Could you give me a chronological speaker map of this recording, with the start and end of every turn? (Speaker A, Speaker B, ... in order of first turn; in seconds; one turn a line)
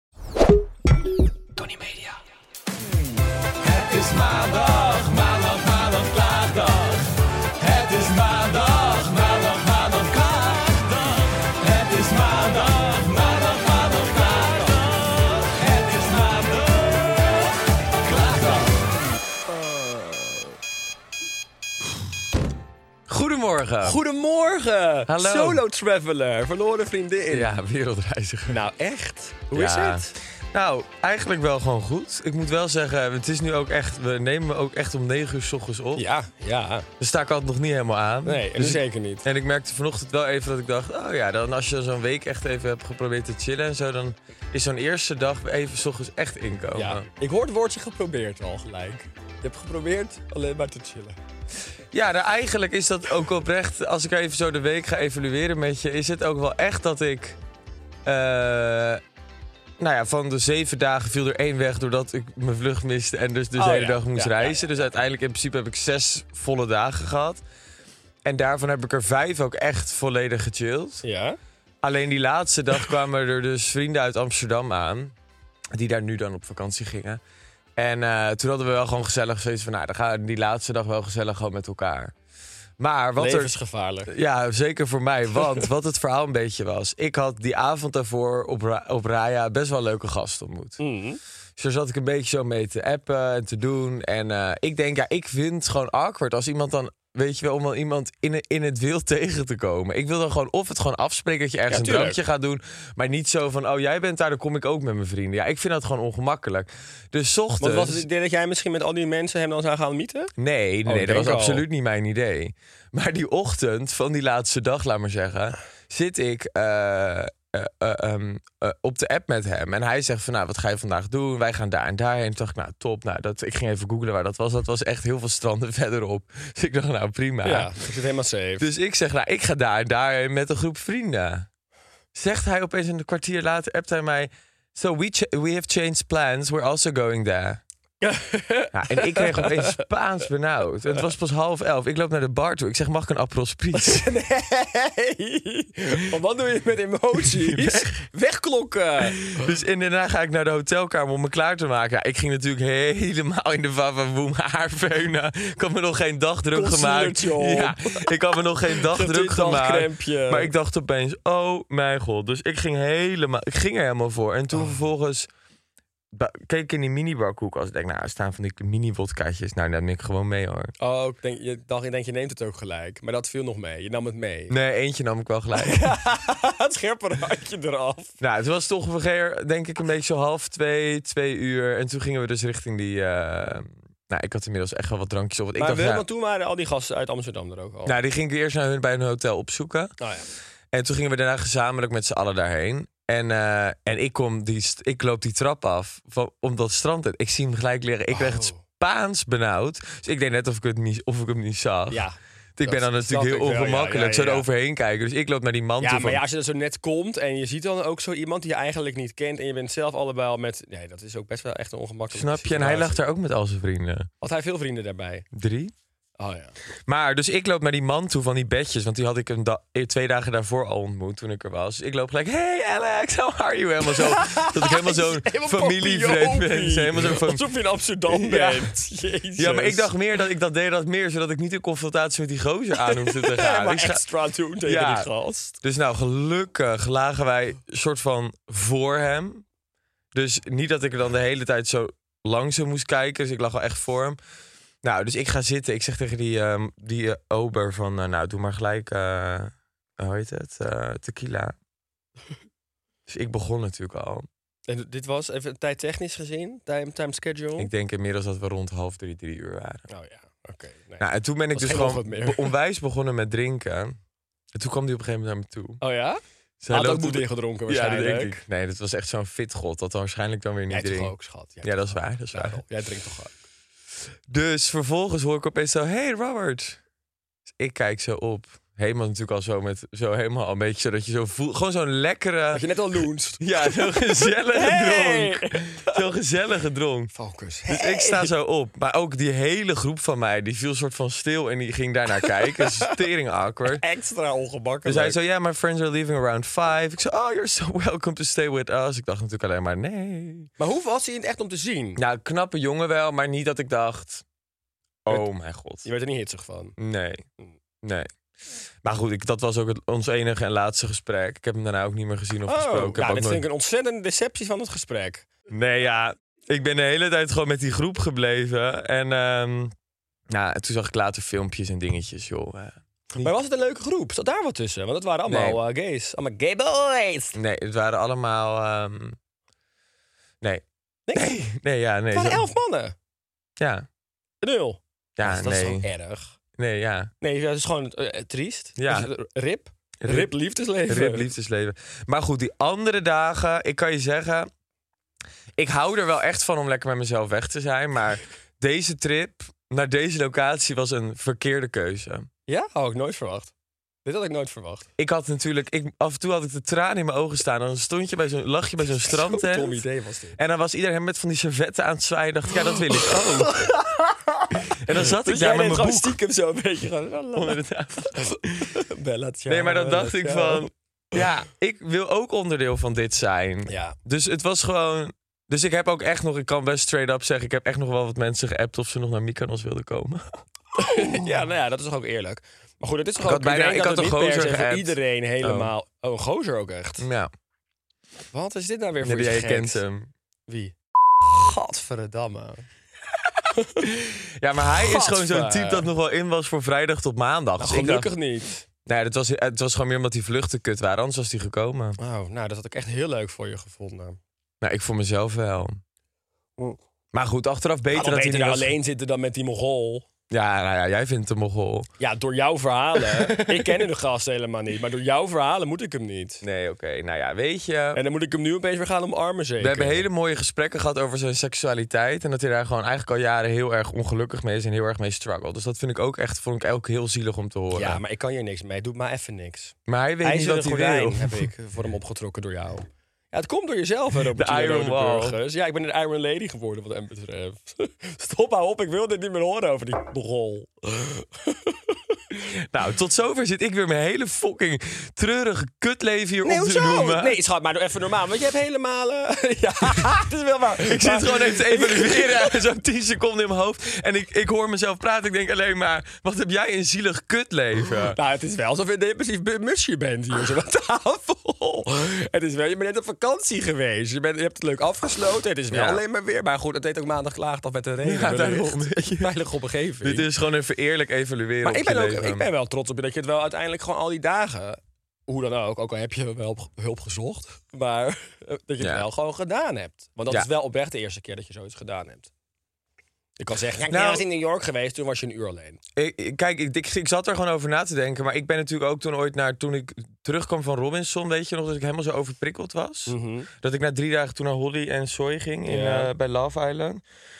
Speaker A: 1.6-2.1
Speaker A: 3.6-17.2
Speaker A: 18.0-18.7
Speaker B: 19.6-20.5
Speaker A: 23.1-24.0
Speaker B: 23.8-27.5
Speaker A: 25.1-25.6
Speaker A: 27.3-28.6
Speaker B: 28.5-30.1
Speaker A: 29.5-36.1
Speaker B: 36.0-36.9
Speaker A: 37.0-47.1
Speaker B: 38.2-39.2
Speaker B: 46.8-51.2
Speaker A: 51.9-57.4
Speaker A: 58.0-59.0
Speaker A: 59.8-67.4
Speaker B: 63.6-64.7
Speaker A: 68.2-71.0
Speaker B: 71.0-71.4
Speaker A: 71.8-75.1
Speaker A: 75.7-77.2
Speaker A: 77.8-82.1
Speaker A: 82.8-83.5
Speaker B: 83.2-84.1
Speaker A: 84.1-90.8
Speaker B: 90.8-91.2
Speaker A: 91.6-108.1
Speaker B: 101.7-102.2
Speaker B: 107.6-110.3
Speaker A: 110.4-127.7
Speaker B: 110.9-111.6
Speaker B: 127.4-128.7
Speaker A: 128.6-131.5
Speaker A: 132.2-137.6
Speaker B: 138.0-139.9
Speaker A: 138.7-144.1
Speaker B: 143.7-149.5
Speaker A: 147.4-147.9
Speaker A: 149.2-165.3
Speaker B: 156.5-158.1
Speaker B: 158.7-160.5
Speaker B: 164.5-164.8
Speaker A: 166.1-170.7
Speaker B: 170.8-174.6
Speaker A: 174.5-175.9
Speaker B: 175.6-178.2
Speaker A: 178.2-186.1
Speaker B: 185.6-188.0
Speaker A: 187.9-189.9
Speaker B: 190.0-190.3
Speaker A: 190.7-206.2
Speaker B: 198.1-198.6
Speaker B: 201.9-204.5
Speaker B: 205.8-213.0
Speaker A: 212.1-214.1
Speaker B: 214.2-215.3
Speaker A: 215.3-215.7
Speaker B: 216.2-216.6
Speaker A: 216.9-227.4
Speaker B: 223.9-229.9
Speaker A: 228.1-228.7
Speaker A: 229.4-234.0
Speaker B: 232.8-235.6
Speaker A: 234.6-235.1
Speaker A: 235.6-239.4
Speaker A: 240.1-244.2
Speaker A: 244.8-251.6
Speaker A: 253.1-254.3
Speaker B: 254.7-257.7
Speaker A: 257.6-259.9
Speaker B: 259.9-262.5
Speaker A: 261.0-264.0
Speaker A: 264.6-265.8
Speaker B: 265.8-268.4
Speaker A: 266.6-272.6
Speaker B: 270.7-273.3
Speaker A: 274.3-276.8
Speaker A: 277.5-282.6
Speaker B: 282.5-286.1
Speaker A: 283.4-287.1
Speaker B: 287.1-288.3
Speaker A: 287.7-293.8
Speaker B: 293.7-295.2
Speaker A: 294.9-300.5
Speaker B: 300.6-302.0
Speaker A: 302.0-304.2
Speaker A: 305.1-305.9
Speaker B: 305.9-306.8
Speaker A: 306.8-307.2
Speaker A: 307.8-308.1
Speaker A: 308.8-313.4
Speaker B: 312.5-315.3
Speaker A: 315.5-319.7
Speaker A: 320.3-323.3
Speaker B: 323.1-327.4
Speaker A: 325.3-325.6
Speaker A: 327.3-329.2
Speaker A: 330.4-332.5
Speaker B: 331.1-331.4
Speaker B: 332.1-332.9
Speaker A: 333.6-333.9
Speaker B: 334.4-336.3
Speaker A: 335.2-335.9
Speaker A: 336.6-337.1
Speaker B: 337.2-341.3
Speaker A: 338.8-339.1
Speaker A: 340.0-340.3
Speaker A: 340.9-344.5
Speaker A: 345.6-352.3
Speaker B: 352.5-353.5
Speaker B: 354.1-354.9
Speaker A: 355.0-359.9
Speaker B: 359.0-360.4
Speaker A: 360.4-363.7
Speaker B: 362.6-371.2
Speaker A: 364.7-366.2
Speaker A: 367.4-368.7
Speaker A: 369.5-381.3
Speaker B: 373.7-374.0
Speaker B: 380.8-387.1
Speaker A: 383.2-385.7
Speaker A: 387.0-387.3
Speaker B: 388.3-389.8
Speaker A: 389.0-390.1
Speaker B: 390.5-392.6
Speaker B: 393.5-393.9
Speaker A: 393.8-398.1
Speaker B: 394.7-395.9
Speaker B: 397.6-398.6
Speaker A: 398.9-402.0
Speaker B: 402.0-404.2
Speaker A: 404.6-405.8
Speaker A: 407.1-408.8
Speaker B: 407.9-410.1
Speaker A: 410.3-411.9
Speaker B: 412.0-416.4
Speaker A: 416.4-418.0
Speaker B: 417.9-420.1
Speaker A: 419.6-428.0
Speaker B: 427.7-442.2
Speaker A: 429.9-431.5
Speaker A: 434.3-435.4
Speaker A: 442.5-447.4
Speaker B: 446.4-452.6
Speaker A: 450.9-458.2
Speaker B: 458.0-470.3
Speaker A: 465.7-466.0
Speaker A: 468.0-469.4
Speaker A: 470.0-472.5
Speaker B: 471.6-482.3
Speaker A: 478.8-479.1
Speaker B: 483.4-485.8
Speaker A: 483.9-484.2
Speaker A: 486.0-497.0
Speaker B: 493.1-493.5
Speaker B: 495.7-496.1